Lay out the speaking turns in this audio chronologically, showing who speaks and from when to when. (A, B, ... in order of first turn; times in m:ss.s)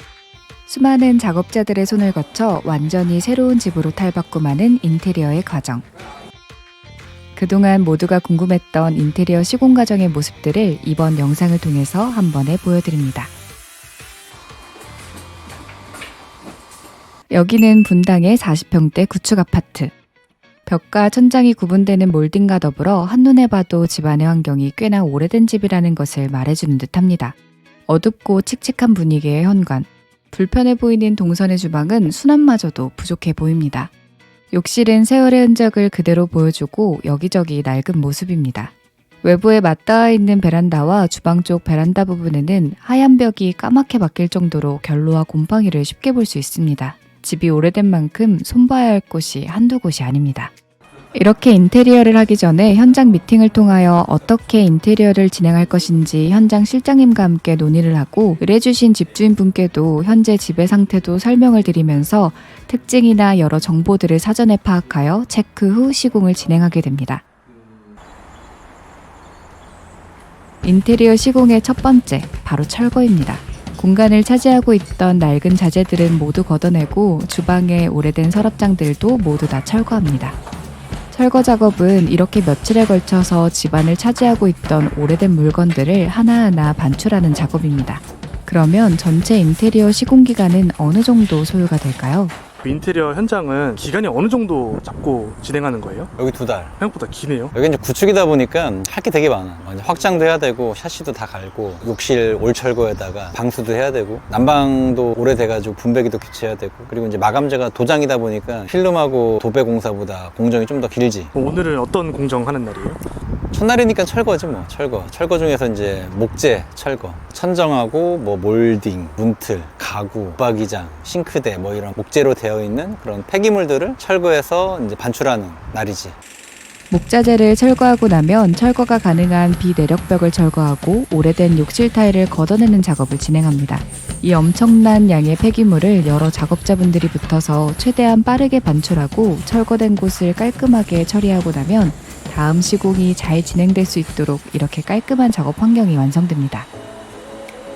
0:00.7-0:05.8 A
0:07.3-0:13.3 A
0:17.3-0:19.9 A
0:20.7-0:27.3 A
0:27.9-0:33.9 A
0:34.5-0:38.7 A
0:39.2-0:50.5 A
0:51.2-1:07.2 A
1:10.6-1:20.4 A
1:21.1-1:32.3 A
1:32.6-1:36.1 B
1:36.2-1:36.8 C
1:36.8-1:37.5 B
1:37.5-1:51.3 C
1:51.3-1:53.0 B
1:53.5-2:06.1 C
2:06.9-2:26.7 A